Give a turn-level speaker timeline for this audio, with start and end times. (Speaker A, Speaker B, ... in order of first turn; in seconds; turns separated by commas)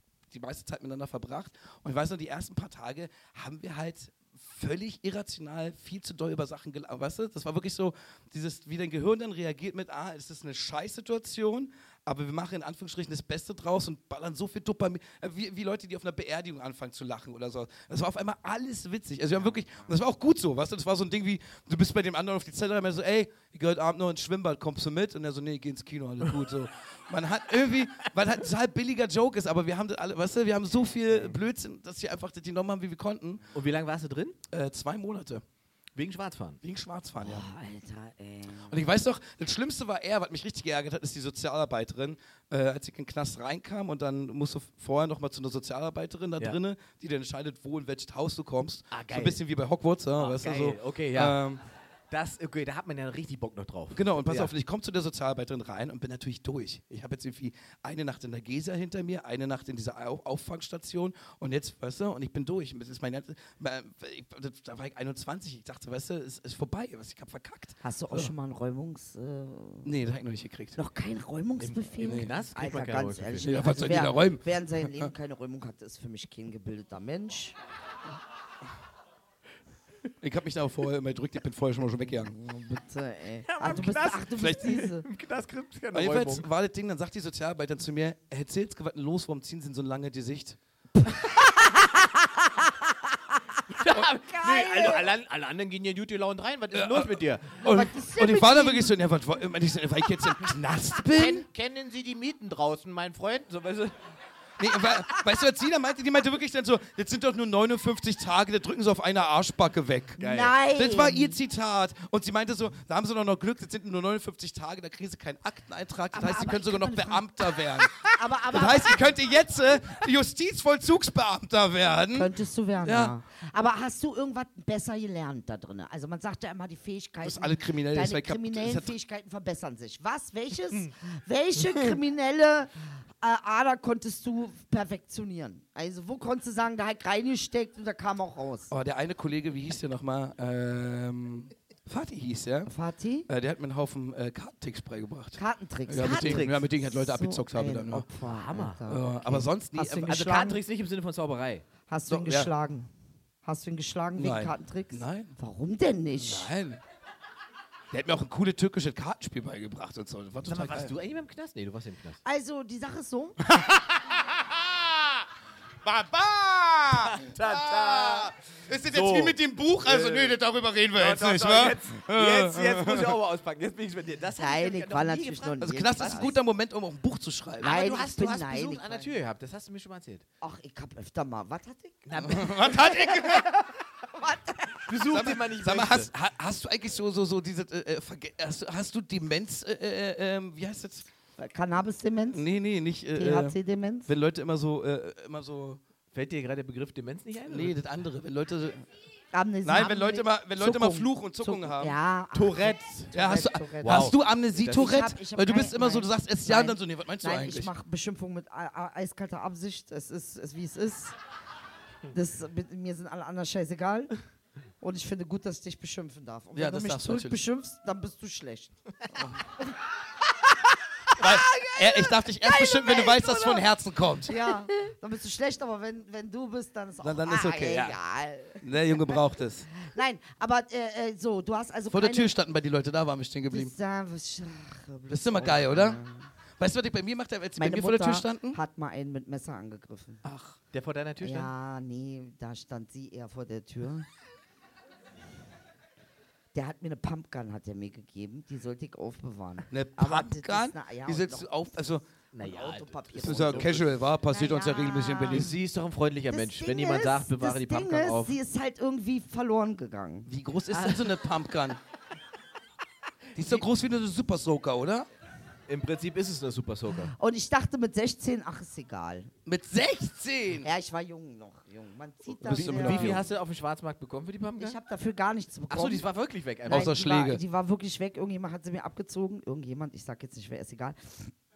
Speaker A: 0.3-33.4, Speaker B: 33.5-34.4, Speaker A: 34.5-35.4, Speaker B: 35.9-36.6, Speaker A: 36.6-37.5, Speaker C: 37.2-38.8, Speaker A: 38.7-51.6, Speaker B: 48.9-49.4, Speaker B: 50.2-51.4, Speaker B: 52.1-54.5, Speaker A: 53.9-68.3, Speaker C: 67.8-69.9, Speaker A: 69.8-70.8, Speaker C: 70.8-77.5, Speaker B: 71.6-73.8, Speaker A: 72.0-72.3, Speaker A: 73.4-75.1, Speaker A: 80.2-82.3, Speaker C: 82.2-85.0, Speaker B: 83.4-86.5, Speaker A: 84.4-84.8, Speaker A: 85.9-90.6, Speaker C: 91.0-91.9, Speaker B: 93.7-97.6, Speaker C: 93.9-95.1, Speaker A: 96.7-101.5, Speaker C: 97.6-98.9, Speaker B: 101.0-104.0, Speaker A: 104.6-122.3, Speaker C: 110.2-111.4, Speaker B: 110.2-110.5, Speaker C: 116.1-119.0, Speaker C: 122.1-138.7, Speaker A: 122.8-123.2, Speaker A: 127.2-128.9, Speaker A: 138.7-142.7, Speaker C: 142.7-143.3, Speaker A: 143.3-148.1, Speaker C: 145.3-150.6, Speaker B: 145.9-146.6, Speaker B: 148.2-148.8, Speaker A: 148.9-150.3, Speaker B: 150.0-151.7, Speaker C: 151.9-152.9, Speaker A: 152.1-152.5, Speaker C: 153.4-156.5, Speaker A: 154.2-155.3, Speaker A: 156.2-156.8, Speaker A: 157.9-160.9, Speaker B: 160.4-162.2, Speaker C: 162.2-163.4, Speaker A: 163.4-165.1, Speaker A: 165.8-173.2, Speaker B: 166.9-168.3, Speaker B: 168.8-170.4, Speaker B: 170.9-176.4, Speaker C: 174.3-176.4, Speaker A: 175.6-177.8, Speaker B: 177.6-180.2, Speaker C: 177.6-179.1, Speaker C: 180.4-183.5, Speaker B: 182.1-183.4, Speaker A: 182.2-183.6, Speaker C: 184.1-184.9, Speaker B: 184.9-186.1, Speaker A: 185.0-191.1, Speaker C: 191.4-192.4, Speaker A: 192.3-193.6, Speaker C: 193.1-194.1, Speaker A: 194.1-195.8, Speaker B: 196.1-197.7, Speaker A: 197.5-198.8, Speaker C: 199.3-211.2, Speaker A: 199.6-202.0, Speaker B: 202.3-203.1, Speaker A: 203.1-207.7, Speaker B: 203.8-204.1, Speaker C: 212.1-214.1, Speaker C: 214.8-218.7, Speaker A: 216.5-217.4, Speaker C: 221.1-223.6, Speaker A: 221.2-224.3, Speaker C: 224.2-229.2, Speaker A: 227.0-228.0, Speaker A: 228.6-229.7, Speaker C: 229.7-232.3, Speaker A: 231.9-233.7, Speaker C: 233.5-236.3, Speaker A: 235.1-236.0, Speaker A: 236.6-238.6, Speaker C: 237.6-240.2, Speaker A: 240.2-240.6, Speaker B: 240.7-241.5, Speaker C: 241.2-244.1, Speaker C: 246.5-251.8, Speaker A: 249.7-252.0, Speaker B: 252.3-254.0, Speaker C: 252.4-255.5, Speaker A: 253.2-255.5, Speaker B: 255.3-258.4, Speaker C: 256.3-260.3, Speaker A: 260.3-261.8, Speaker B: 260.7-261.2, Speaker A: 263.3-265.1, Speaker B: 263.4-263.6, Speaker B: 265.7-267.1, Speaker C: 267.1-269.3, Speaker A: 269.4-270.7, Speaker C: 270.6-273.2, Speaker A: 272.4-273.2, Speaker B: 272.4-274.8, Speaker C: 274.6-276.1, Speaker B: 275.7-277.1, Speaker A: 276.7-277.4, Speaker C: 276.7-281.3